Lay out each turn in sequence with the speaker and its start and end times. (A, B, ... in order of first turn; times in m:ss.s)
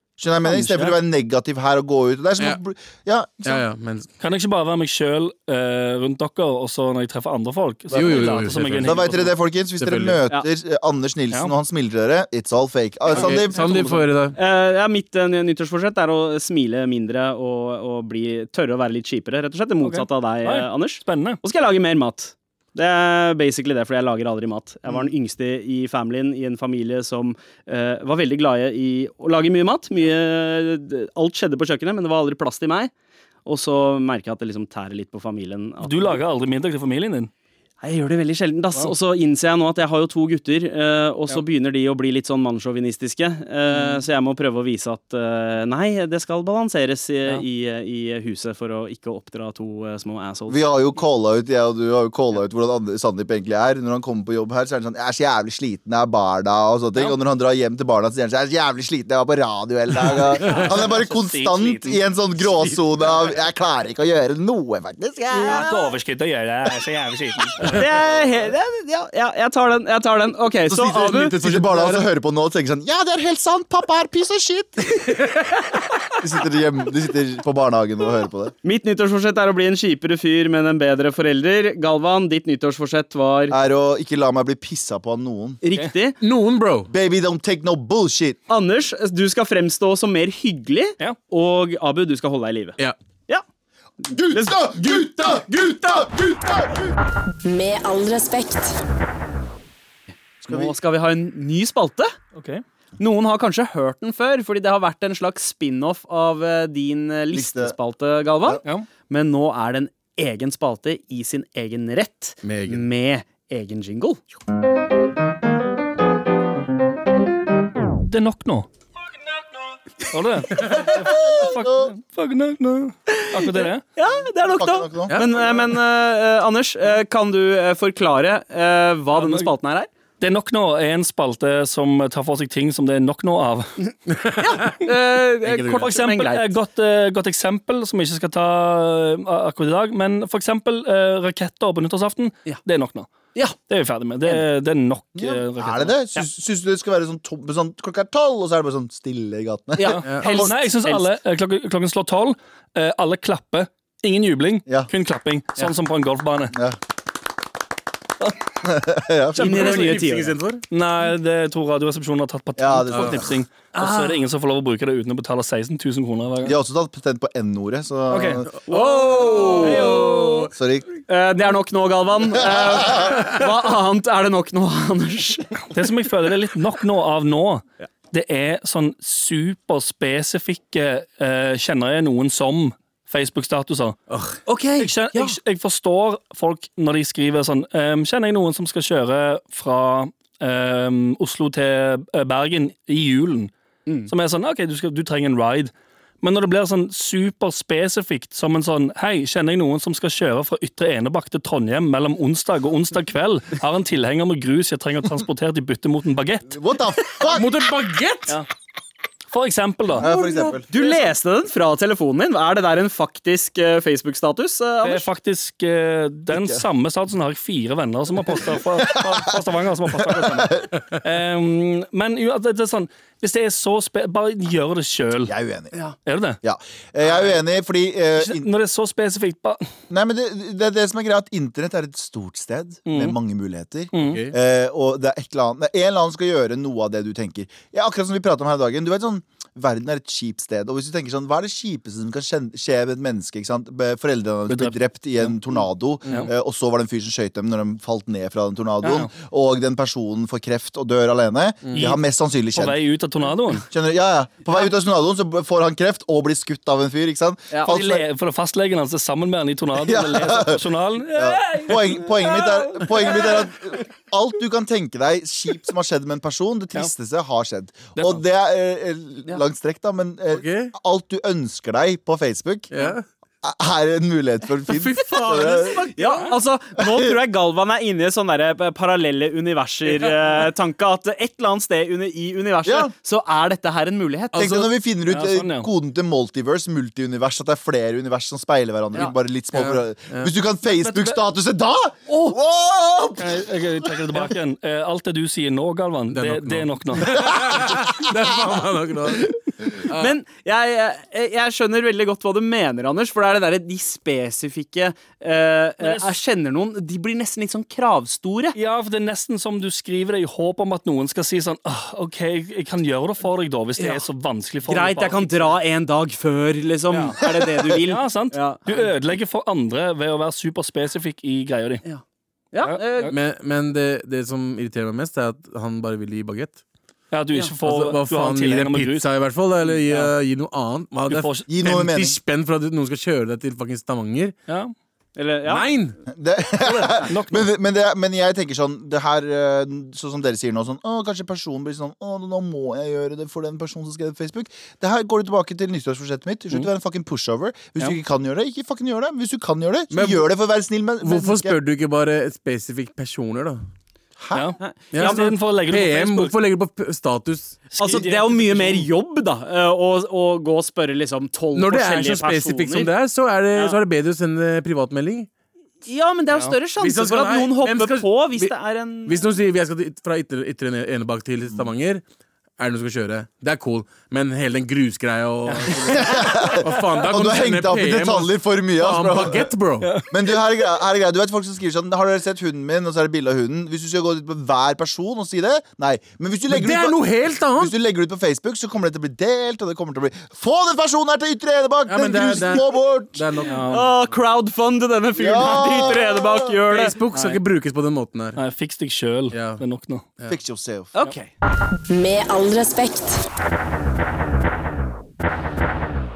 0:00.2-0:03.6 A
0:03.4-0:04.1 B
0:04.2-0:09.3 C
0:07.9-0:13.6 A
0:07.9-0:09.1 B
0:09.8-0:10.2 B
0:13.1-0:14.1 C
0:13.2-0:14.4 B
0:14.4-0:32.9 D
0:19.8-0:21.4 C
0:33.4-0:36.2 D
0:35.8-0:37.3 C
0:37.8-0:50.6 D
0:50.5-1:05.9 A
1:00.4-1:02.0 C
1:05.3-1:07.8 C
1:07.6-1:11.4 D
1:10.7-1:15.1 A
1:11.3-1:12.0 B
1:16.2-1:18.5 A
1:18.6-1:23.6 D
1:23.5-1:25.6 A
1:25.6-1:26.2 D
1:26.2-1:26.9 B
1:26.9-1:28.4 A
1:28.5-1:32.8 D
1:34.1-1:36.9 A
1:34.3-1:34.7 D
1:34.9-1:35.4 B
1:37.4-1:38.8 E
1:40.4-1:40.8 A
1:40.4-1:42.1 D
1:42.4-1:42.6 C
1:43.0-1:54.2 D
1:47.3-1:47.8 A
1:52.4-1:52.8 B
1:58.0-1:58.7 C
2:00.1-2:03.8 C
2:01.0-2:01.9 A
2:03.1-2:09.9 D
2:04.5-2:05.6 A
2:09.1-2:09.5 C
2:10.2-2:13.8 C
2:14.1-2:14.8 B
2:14.4-2:16.5 D
2:15.4-2:15.9 B
2:15.7-2:23.1 C
2:23.7-2:26.2 C
2:25.2-2:30.5 A
2:29.8-2:31.1 D
2:29.8-2:36.5 C
2:36.5-2:36.8 A
2:38.6-2:39.8 A
2:39.4-2:40.4 D
2:39.4-2:40.6 B
2:40.7-2:46.6 C
2:42.6-2:43.4 A
2:42.9-2:43.2 B
2:43.8-2:44.2 D
2:46.4-2:48.5 A
2:48.1-2:48.4 C
2:48.7-2:50.5 B
2:48.7-2:50.5 D
2:49.6-2:50.2 C
2:50.5-2:50.9 A
2:51.1-2:55.6 D
2:52.4-2:53.2 A
2:55.7-3:04.0 C
3:04.1-3:04.4 B
3:04.4-3:05.4 D
3:04.8-3:13.5 C
3:14.1-3:26.6 C
3:26.5-3:27.6 A
3:27.2-3:28.4 B
3:29.3-3:30.0 C
3:30.0-3:30.7 A
3:30.0-3:30.6 B
3:30.7-3:35.1 D
3:34.8-3:45.3 C
3:36.3-3:36.6 A
3:38.8-3:39.4 A
3:39.9-3:40.7 A
3:45.2-3:45.7 A
3:46.0-3:46.4 C
3:46.4-3:48.5 A
3:48.2-3:49.7 C
3:49.9-4:12.8 A
3:52.8-3:53.2 C
3:53.9-3:54.2 C
3:54.0-3:54.3 B
4:04.5-4:05.3 C
4:08.8-4:09.1 C
4:11.7-4:12.0 C
4:12.5-4:13.7 C
4:13.7-4:18.0 A
4:17.7-4:23.4 C
4:19.8-4:32.7 A
4:28.0-4:28.2 C
4:30.3-4:30.7 B
4:32.7-4:33.0 B
4:33.4-4:35.9 A
4:34.7-4:35.8 B
4:35.2-4:44.7 D
4:36.0-4:36.3 C
4:36.8-4:37.1 A
4:42.6-4:42.9 A
4:44.3-4:53.6 A
4:45.1-4:45.7 C
4:49.5-4:50.3 B
4:50.8-4:51.2 C
4:53.2-4:57.1 C
4:56.1-5:00.1 B
4:59.9-5:08.6 D
5:05.8-5:06.1 C
5:08.5-5:15.5 C
5:13.8-5:14.0 D
5:14.6-5:18.8 D
5:16.9-5:17.2 C
5:17.8-5:21.8 C
5:21.8-5:23.1 D
5:22.6-5:23.1 C
5:23.1-5:26.6 B
5:27.1-5:29.1 C
5:27.6-5:34.4 B
5:29.8-5:30.1 C
5:31.1-5:31.5 C
5:31.5-5:32.2 A
5:34.5-5:34.7 C
5:35.2-5:35.7 D
5:35.5-5:36.0 B
5:36.1-5:51.6 A
5:36.6-5:37.5 C
5:49.9-5:50.2 B
5:51.0-5:53.6 B
5:54.2-5:54.5 A
5:54.3-5:56.3 C
5:54.6-5:55.3 D
5:54.9-5:57.6 B
5:57.7-5:58.9 C
5:57.8-6:02.9 D
6:01.5-6:05.3 B
6:03.5-6:03.8 D
6:05.8-6:09.2 D
6:06.8-6:08.5 B
6:09.0-6:12.0 B
6:12.6-6:20.0 B
6:15.5-6:16.6 C
6:15.8-6:19.5 A
6:19.8-6:20.1 C
6:20.1-6:33.3 A
6:26.5-6:27.7 B
6:31.9-6:33.9 B
6:33.4-6:33.9 C
6:33.7-6:37.4 D
6:35.2-6:36.5 A
6:36.7-6:38.4 B
6:38.4-6:40.0 C
6:39.3-6:39.6 B
6:40.3-6:40.9 A
6:41.0-6:41.3 D
6:41.9-6:43.2 E